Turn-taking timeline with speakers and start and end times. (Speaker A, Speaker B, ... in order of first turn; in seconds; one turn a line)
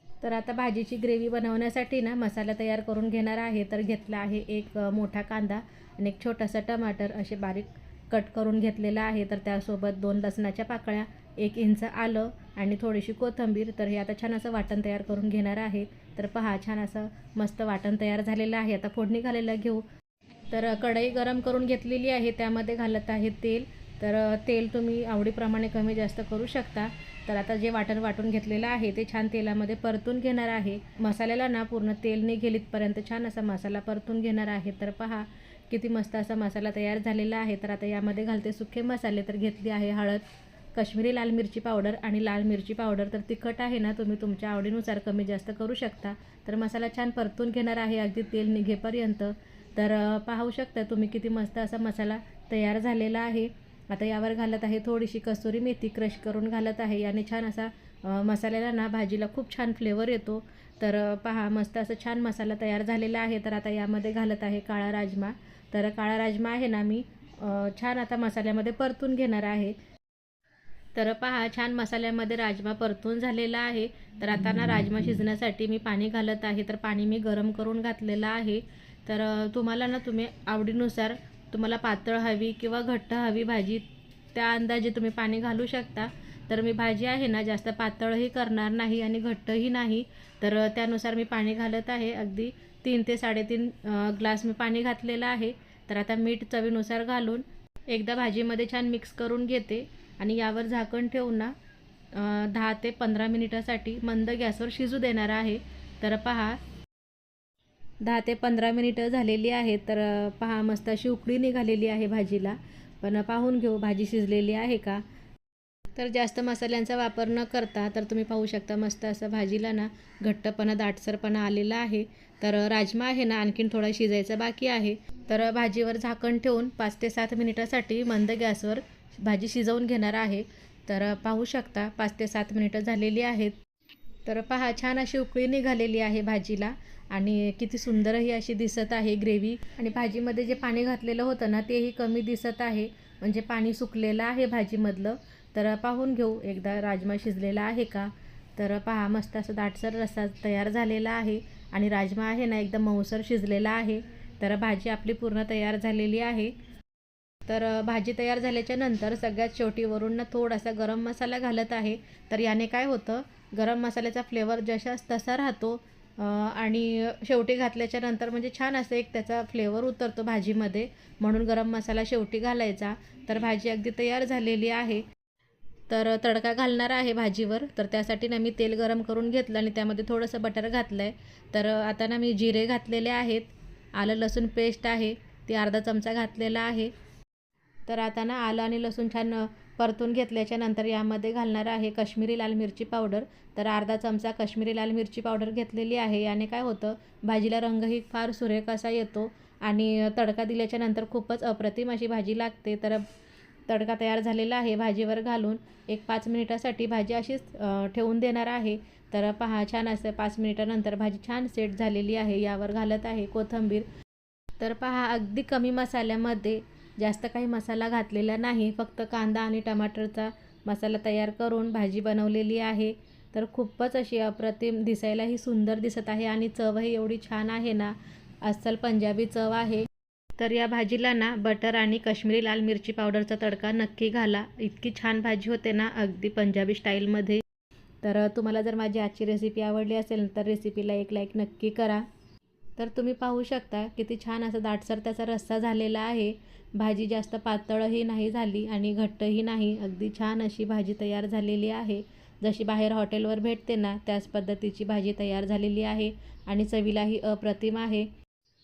Speaker A: 0.2-19.9
Speaker A: 20.5-69.8
Speaker A: 71.0-101.5
Speaker A: 102.1-106.6
Speaker A: 108.0-115.0
Speaker A: 116.0-133.6
Speaker A: 134.3-156.6
Speaker A: 157.5-175.0
Speaker A: 175.9-186.9
Speaker A: 187.9-203.1
Speaker A: 203.7-213.9
Speaker A: 214.6-229.9
Speaker A: 230.4-237.4
Speaker A: 238.0-242.1
Speaker A: 242.8-258.1